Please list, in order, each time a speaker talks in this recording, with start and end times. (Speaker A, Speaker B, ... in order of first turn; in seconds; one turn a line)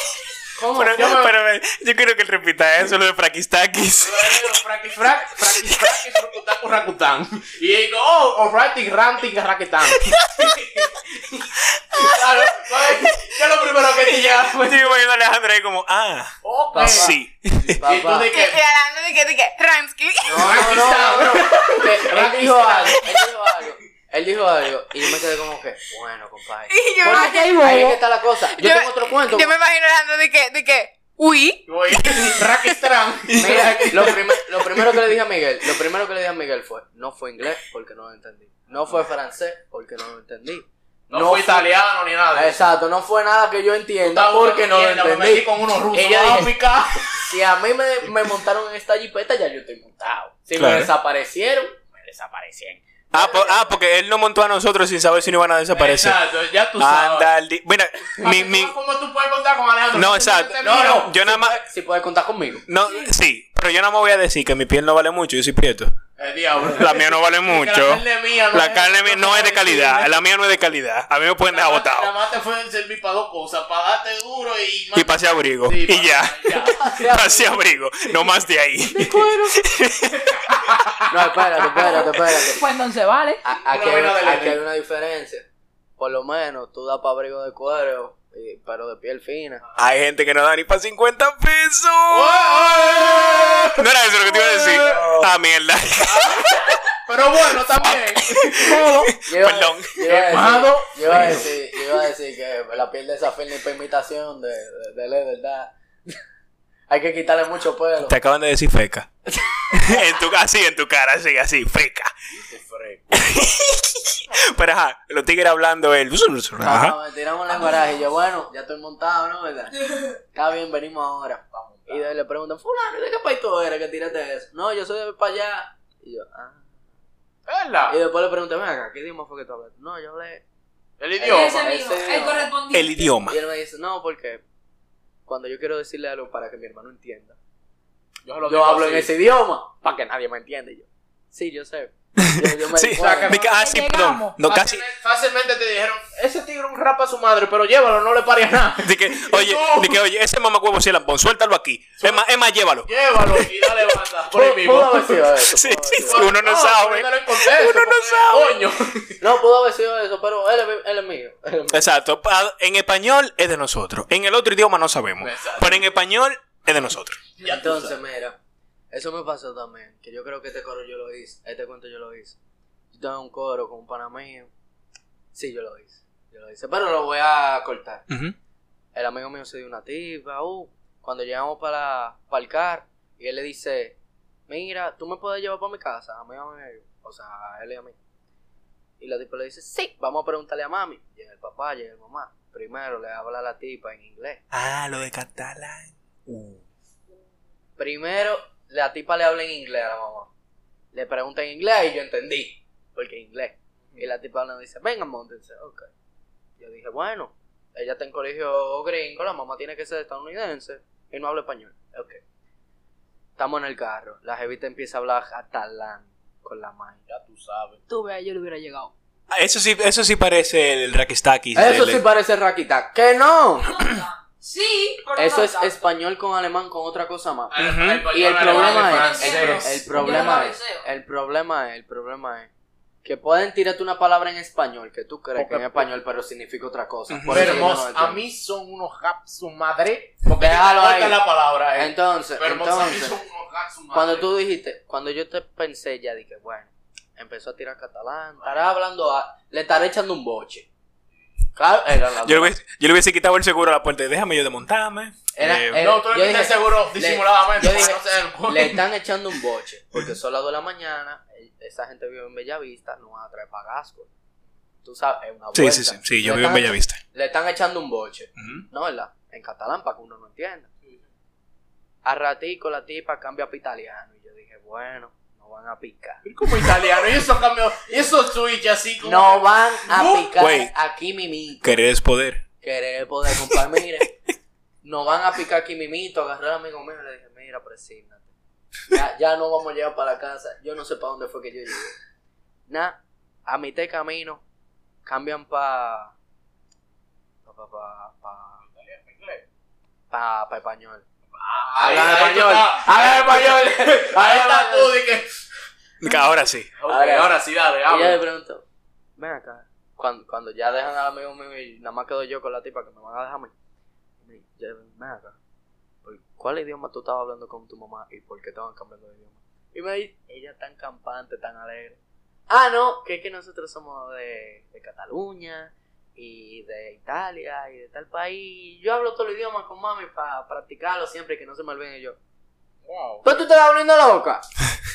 Speaker A: 0.6-1.2
Speaker B: 0.7-4.5
Speaker C: 0.9-1.3
Speaker C: 4.0-14.9
Speaker B: 5.4-6.0
Speaker B: 10.0-10.6
Speaker B: 11.7-13.1
Speaker B: 14.3-17.8
Speaker C: 16.4-18.6
Speaker A: 16.7-17.2
Speaker A: 17.7-18.3
Speaker D: 18.3-20.5
Speaker A: 20.2-29.5
Speaker C: 20.3-23.1
Speaker D: 26.7-27.6
Speaker E: 27.1-28.0
Speaker D: 28.5-31.6
Speaker C: 31.7-34.2
Speaker B: 32.0-32.3
Speaker B: 33.3-35.0
Speaker A: 33.4-41.7
Speaker C: 41.1-42.6
Speaker A: 42.3-46.5
Speaker C: 44.0-47.2
Speaker A: 47.1-53.7
Speaker B: 50.5-50.9
Speaker C: 51.9-52.6
Speaker B: 53.1-56.2
Speaker C: 55.7-57.3
Speaker B: 56.8-58.7
Speaker C: 58.2-61.1
Speaker B: 59.9-61.6
Speaker A: 60.6-62.6
Speaker B: 62.7-65.9
Speaker C: 66.2-70.2
Speaker B: 66.7-72.1
Speaker C: 71.5-76.8
Speaker B: 74.9-80.9
Speaker A: 76.6-77.8
Speaker A: 78.9-79.6
Speaker C: 80.2-81.0
Speaker A: 81.1-82.6
Speaker E: 81.8-83.4
Speaker A: 83.4-85.5
Speaker C: 83.6-84.6
Speaker A: 86.0-89.6
Speaker B: 89.8-96.8
Speaker C: 92.1-95.0
Speaker A: 94.8-95.3
Speaker C: 96.0-99.1
Speaker B: 97.8-100.0
Speaker A: 99.2-106.2
Speaker C: 100.0-101.5
Speaker A: 106.9-108.2
Speaker B: 108.1-109.1
Speaker A: 109.3-110.0
Speaker B: 109.7-112.1
Speaker C: 112.3-113.5
Speaker B: 113.1-117.0
Speaker A: 116.6-126.7
Speaker C: 121.5-122.1
Speaker C: 127.5-128.0
Speaker A: 127.9-130.4
Speaker C: 131.0-131.6
Speaker A: 131.2-132.5
Speaker E: 131.2-133.1
Speaker B: 132.7-133.4
Speaker A: 133.3-134.4
Speaker A: 135.3-137.3
Speaker C: 138.2-139.1
Speaker A: 138.4-143.4
Speaker B: 142.2-144.8
Speaker C: 143.0-143.4
Speaker E: 143.3-144.3
Speaker C: 144.4-150.0
Speaker B: 148.8-153.5
Speaker C: 152.0-152.2
Speaker C: 152.8-155.3
Speaker A: 154.3-156.3
Speaker B: 155.5-158.7
Speaker C: 156.0-159.2
Speaker A: 159.2-161.9
Speaker B: 161.7-167.2
Speaker C: 165.2-165.8
Speaker C: 167.4-167.9
Speaker A: 167.4-168.3
Speaker A: 168.9-172.3
Speaker A: 172.9-174.5
Speaker A: 175.3-178.0
Speaker B: 178.1-178.3
Speaker A: 178.9-183.9
Speaker A: 184.5-187.9
Speaker A: 189.0-194.4
Speaker B: 194.5-196.6
Speaker A: 197.8-200.3
Speaker A: 200.9-205.9
Speaker A: 206.6-212.2
Speaker A: 213.4-217.0
Speaker C: 217.1-217.8
Speaker E: 217.9-218.9
Speaker B: 219.3-222.0
Speaker A: 221.5-223.7
Speaker E: 223.6-225.8
Speaker A: 225.1-227.5
Speaker C: 227.5-230.4
Speaker B: 227.6-228.1
Speaker A: 228.1-232.5
Speaker E: 228.3-230.8
Speaker A: 233.0-238.2
Speaker C: 235.3-235.9
Speaker B: 237.1-237.7
Speaker C: 237.3-244.3
Speaker A: 240.3-241.2
Speaker A: 241.8-243.2
Speaker A: 243.9-250.7
Speaker A: 251.6-252.5
Speaker B: 252.2-255.9
Speaker A: 255.3-264.1
Speaker C: 255.8-258.8
Speaker A: 264.8-270.7
Speaker B: 265.5-267.0
Speaker B: 268.4-268.6
Speaker A: 272.0-276.2
Speaker C: 276.2-280.3
Speaker A: 279.0-281.7
Speaker B: 280.4-280.7
Speaker B: 281.6-282.4
Speaker A: 282.6-284.1
Speaker A: 284.8-288.3
Speaker A: 288.9-291.9
Speaker A: 292.7-294.4
Speaker A: 295.1-296.1
Speaker A: 297.4-298.6
Speaker C: 298.7-299.4
Speaker A: 300.1-301.0
Speaker C: 301.4-305.3
Speaker A: 301.8-305.0
Speaker B: 306.0-306.7
Speaker C: 306.8-308.2
Speaker A: 306.9-307.3
Speaker A: 307.9-308.6
Speaker A: 309.2-313.5
Speaker A: 314.2-315.4
Speaker A: 316.0-322.0
Speaker A: 322.5-332.2
Speaker C: 332.8-333.4
Speaker A: 333.2-334.4